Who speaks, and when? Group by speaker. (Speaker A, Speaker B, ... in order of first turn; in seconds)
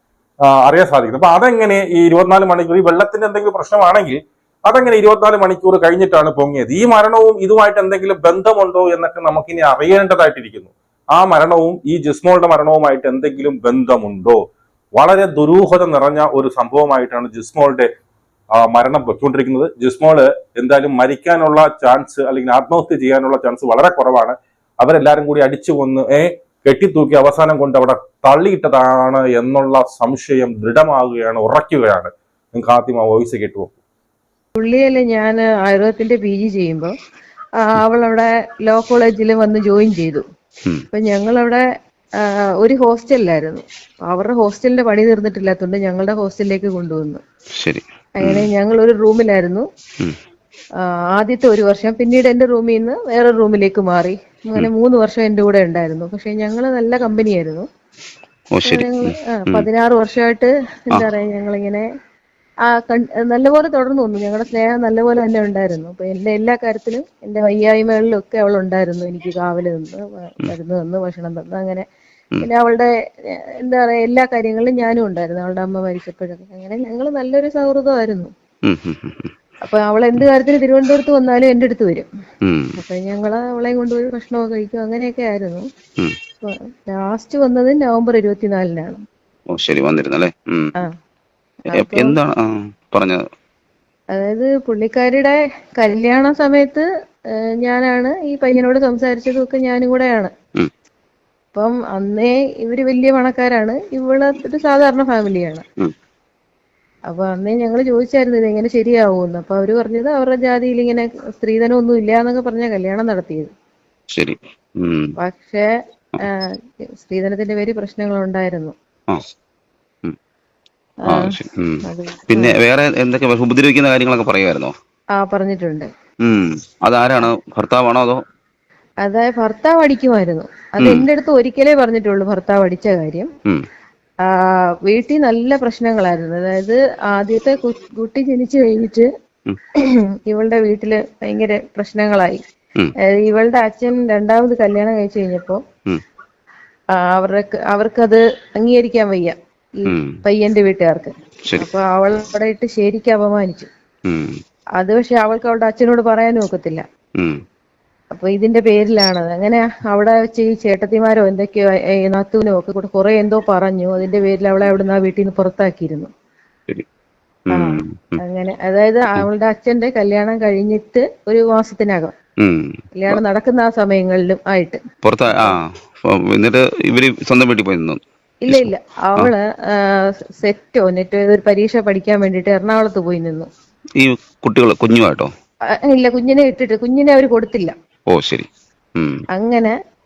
Speaker A: 0.5-14.4, 15.0-17.9, 18.6-33.7
Speaker B: 34.6-36.9, 37.6-40.2, 40.9-41.6, 42.2-47.2, 48.2-49.7, 50.8-57.7, 58.6-61.9, 62.7-71.8, 72.4-78.3, 79.6-82.1, 82.8-85.7, 86.4-89.0, 91.7-92.2, 94.1-96.9, 97.6-100.3, 101.5-105.6, 107.1-113.5, 115.2-115.7, 116.2-118.8, 121.1-122.6, 125.2-125.9, 129.0-133.3, 134.4-139.1, 140.3-142.4, 143.1-145.6, 146.9-153.7, 154.8-156.8, 158.1-166.1, 167.5-172.1, 173.0-174.8, 175.3-175.6, 178.4-183.5, 185.7-187.7, 189.3-189.8
Speaker C: 47.6-48.5, 58.5-59.7, 78.7-79.3, 82.5-82.8, 89.5-90.7, 91.7-93.2, 114.2-115.1, 121.1-124.7, 126.2-128.2, 130.8-131.1, 149.9-150.1, 154.1-154.4, 167.5-168.2, 172.4-173.2, 175.1-179.3, 184.0-185.3, 188.1-189.2